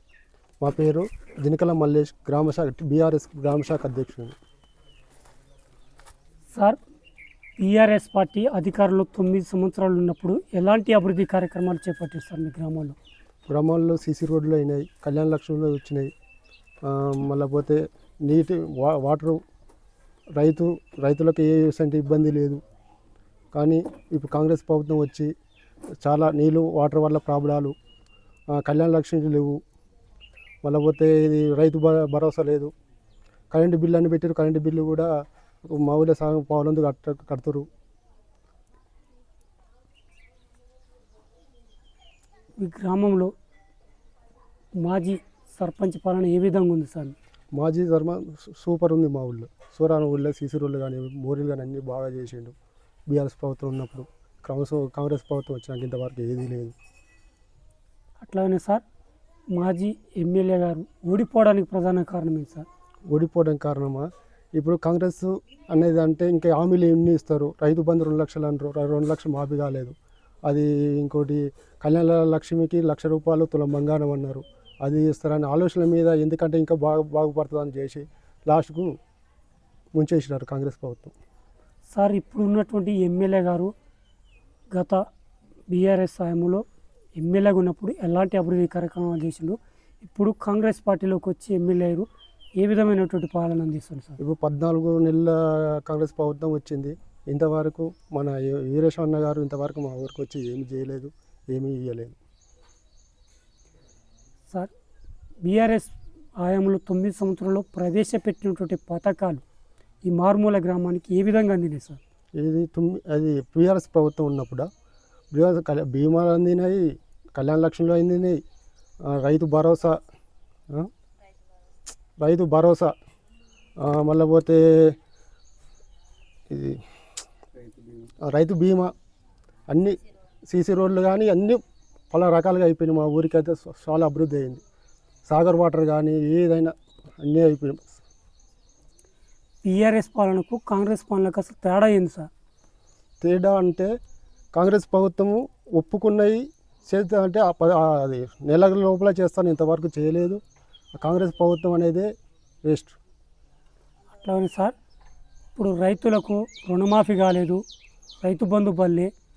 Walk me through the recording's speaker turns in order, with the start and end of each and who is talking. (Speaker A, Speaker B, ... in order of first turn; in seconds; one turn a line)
Speaker A: 0.6-4.3
Speaker B: 7.6-12.9
Speaker A: 13.5-16.1
Speaker A: 16.8-19.4
Speaker A: 20.4-22.6
Speaker A: 23.5-25.3
Speaker A: 26.0-27.7
Speaker A: 28.5-29.6
Speaker A: 30.6-32.7
Speaker A: 33.5-35.1
Speaker A: 35.6-37.7
Speaker B: 42.6-43.3
Speaker B: 44.8-47.1
Speaker A: 47.5-52.5
Speaker A: 53.1-56.8
Speaker B: 58.2-58.8
Speaker B: 59.5-62.6
Speaker A: 63.1-69.9
Speaker A: 70.5-78.9
Speaker A: 79.9-81.1
Speaker B: 81.9-83.7
Speaker B: 84.7-85.0
Speaker B: 85.7-86.6
Speaker B: 87.2-92.1
Speaker B: 92.6-94.2
Speaker A: 94.2-102.2
Speaker B: 105.4-109.4
Speaker B: 110.0-112.0
Speaker A: 112.4-114.7
Speaker A: 115.3-118.4
Speaker A: 119.0-120.0
Speaker A: 122.2-122.9
Speaker A: 123.8-125.0
Speaker A: 126.5-126.8
Speaker A: 128.2-128.9
Speaker A: 129.7-130.0
Speaker A: 130.5-134.6
Speaker A: 135.3-138.0
Speaker B: 139.6-142.3
Speaker A: 143.2-143.9
Speaker A: 144.5-150.4
Speaker A: 150.9-152.1
Speaker A: 152.7-152.9
Speaker B: 154.2-154.7
Speaker B: 155.6-157.6
Speaker B: 158.2-159.1